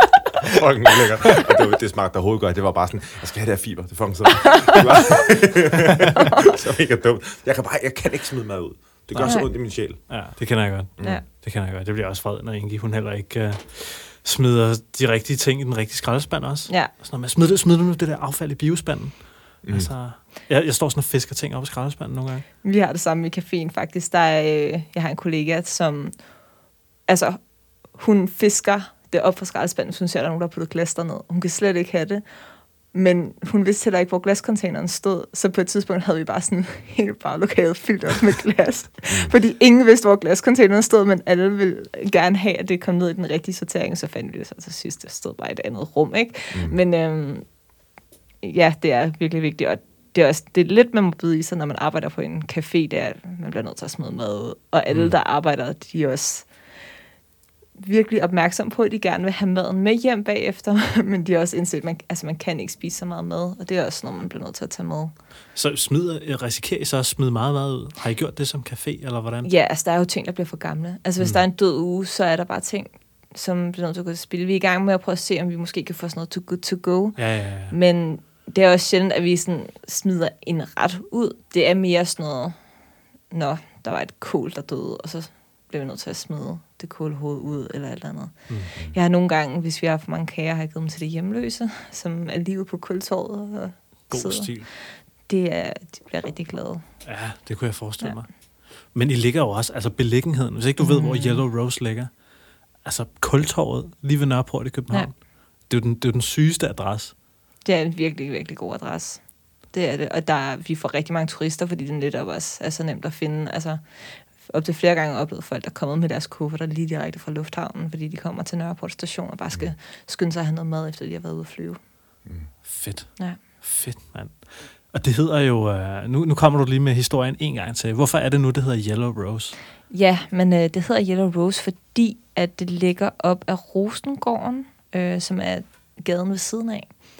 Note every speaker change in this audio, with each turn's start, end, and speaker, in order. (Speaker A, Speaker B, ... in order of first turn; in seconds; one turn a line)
Speaker A: 0.4-11.2
Speaker B: 4.5-4.8
Speaker C: 9.1-22.5
Speaker B: 9.2-9.5
Speaker A: 19.6-19.9
Speaker B: 22.6-26.3
Speaker B: 27.1-47.6
Speaker A: 46.5-46.8
Speaker B: 48.4-56.8
Speaker B: 57.8-65.1
Speaker C: 65.5-69.5
Speaker B: 69.4-82.6
Speaker C: 77.2-77.8
Speaker B: 83.3-97.0
Speaker C: 94.1-94.7
Speaker C: 97.0-102.2
Speaker B: 100.8-101.5
Speaker C: 102.8-107.2
Speaker B: 107.6-121.8
Speaker A: 122.2-122.5
Speaker C: 122.6-129.6
Speaker B: 129.9-137.1